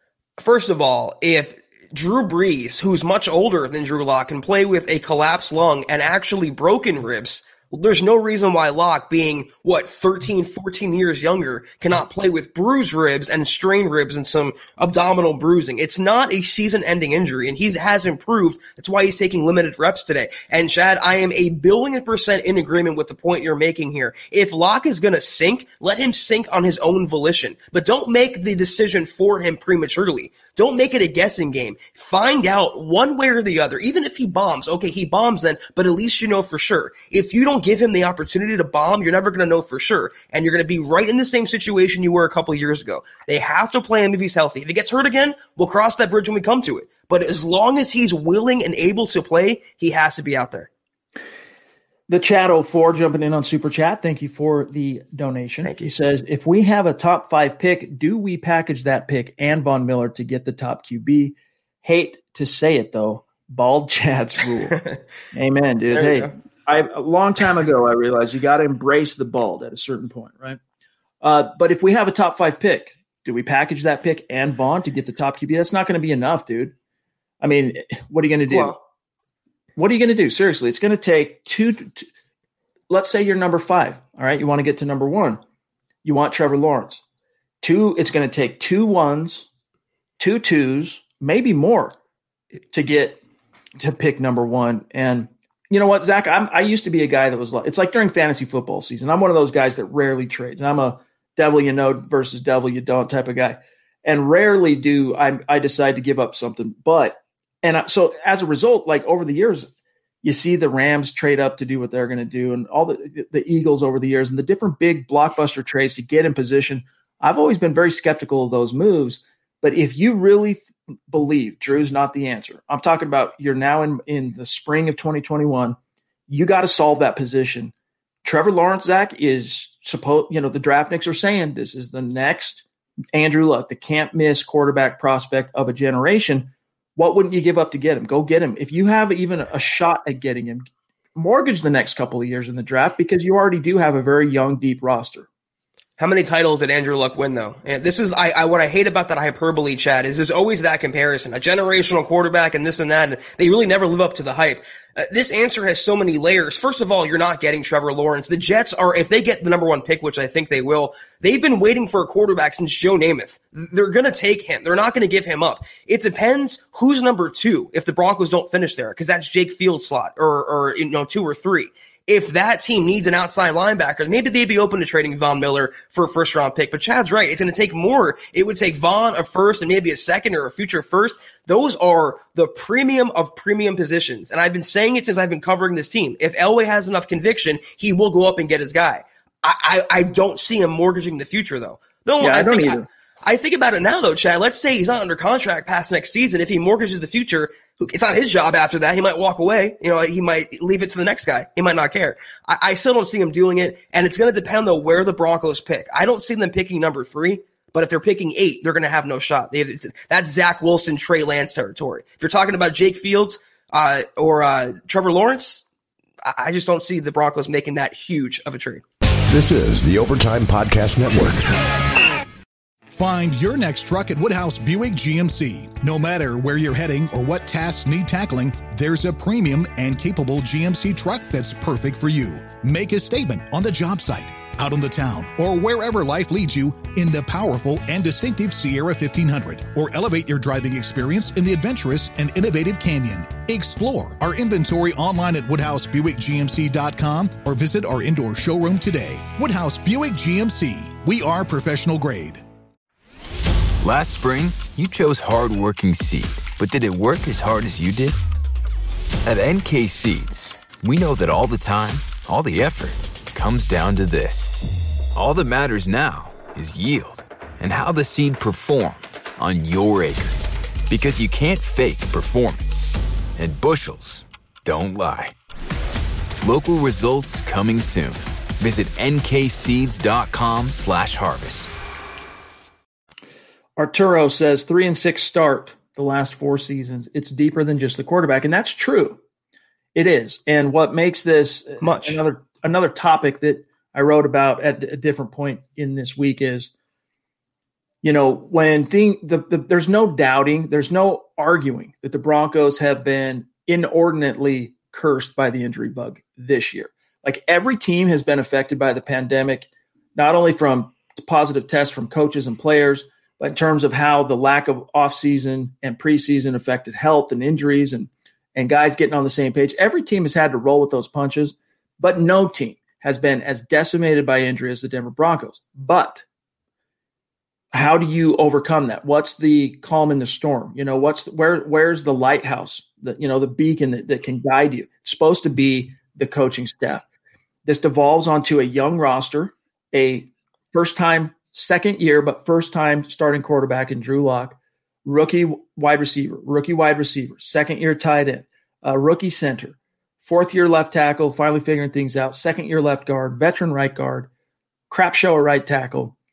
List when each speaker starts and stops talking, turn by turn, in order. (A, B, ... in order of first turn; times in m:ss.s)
0:00.4-0:50.7 A
0:52.1-1:10.6 B
0:55.6-0:55.9 A
1:05.9-1:06.3 A
1:11.2-1:16.7 B
1:17.4-1:18.8 B
1:18.5-1:18.8 A
1:19.8-1:22.1 B
1:22.9-1:25.4 B
1:26.0-1:27.0 B
1:27.6-1:29.5 B
1:30.2-1:32.0 B
1:32.7-1:33.2 B
1:33.8-1:49.7 B
1:50.2-2:05.8 B
2:06.3-2:07.7 B
2:08.2-2:25.3 B
2:26.0-3:35.6 A
3:12.2-3:12.9 B
3:36.2-3:38.8 A
3:39.3-3:41.6 C
3:42.9-4:12.4 D
4:13.8-4:18.2 E
4:19.2-4:24.6 E
4:25.2-4:35.4 E
4:36.4-4:41.7 E
4:43.8-4:49.2 B
4:50.0-4:56.7 B
4:51.8-4:52.2 A
4:58.0-5:26.2 B
5:27.7-5:37.0 B
5:37.6-5:54.3 B
5:54.9-5:56.2 B